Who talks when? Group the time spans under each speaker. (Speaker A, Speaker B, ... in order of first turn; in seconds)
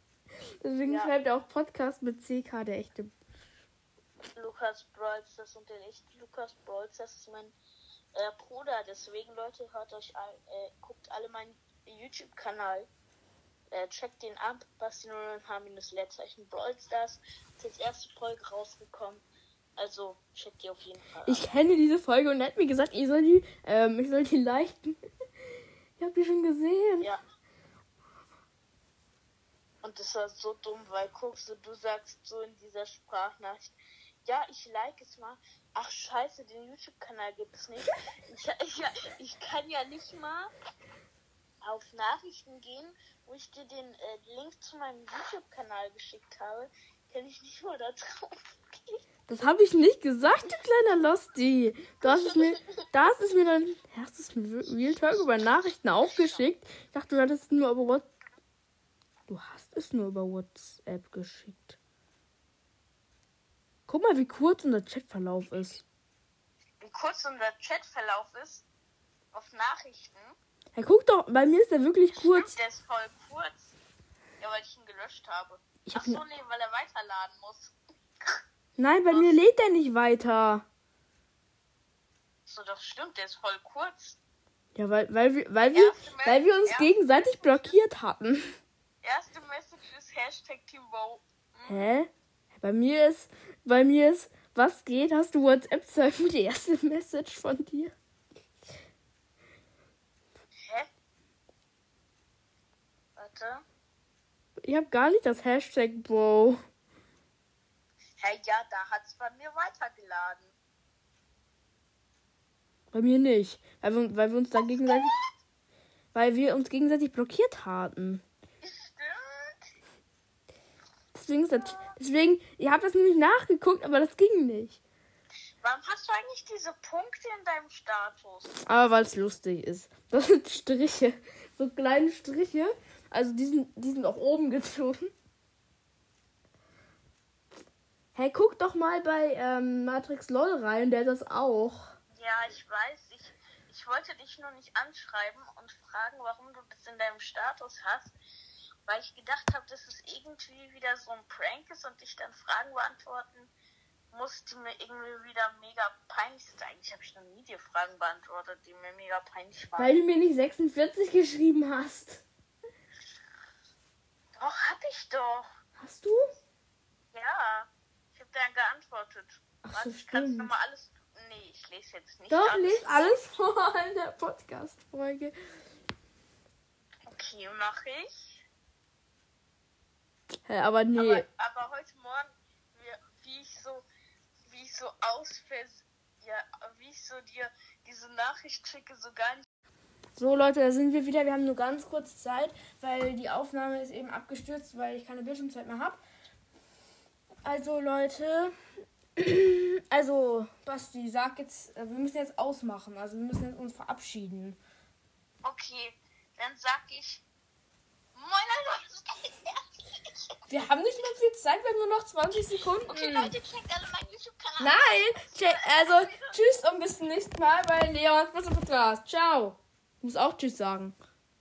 Speaker A: 0.6-3.1, 21.2-25.0, 26.0-27.1, 49.3-58.0, 59.3-61.8, 63.9-65.8, 70.7-72.5, 75.8-76.2, 78.8-80.6, 84.7-88.6, 91.7-97.9, 104.6-106.6, 112.9-115.1, 116.1-118.2, 121.1-124.8, 128.7-135.1, 138.1-141.9, 159.8-162.2, 165.8-166.2, 169.6-170.5, 172.3-175.3, 180.5-181.2, 190.2-196.0, 197.4-198.5, 199.2-204.6, 210.5-213.3, 214.6-220.9
Speaker B: 0.8-1.1, 4.3-7.5, 8.1-12.9, 13.7-19.2, 19.8-21.5, 29.8-40.5, 41.6-49.0, 52.0-52.4, 66.8-68.7, 69.3-70.3, 72.1-73.8, 74.4-77.8, 79.1-79.3, 82.5-84.2, 85.7-87.7, 89.0-91.8, 103.2-103.6, 108.2-110.5, 114.6-115.2, 118.6-119.6, 121.5-121.9, 125.6-128.6, 142.1-148.1, 148.8-153.5, 154.1-160.0, 164.4-165.5, 167.1-173.2, 177.1-178.4, 180.9-183.8, 184.5-189.4, 205.4-207.2, 208.1-210.1, 212.9-216.3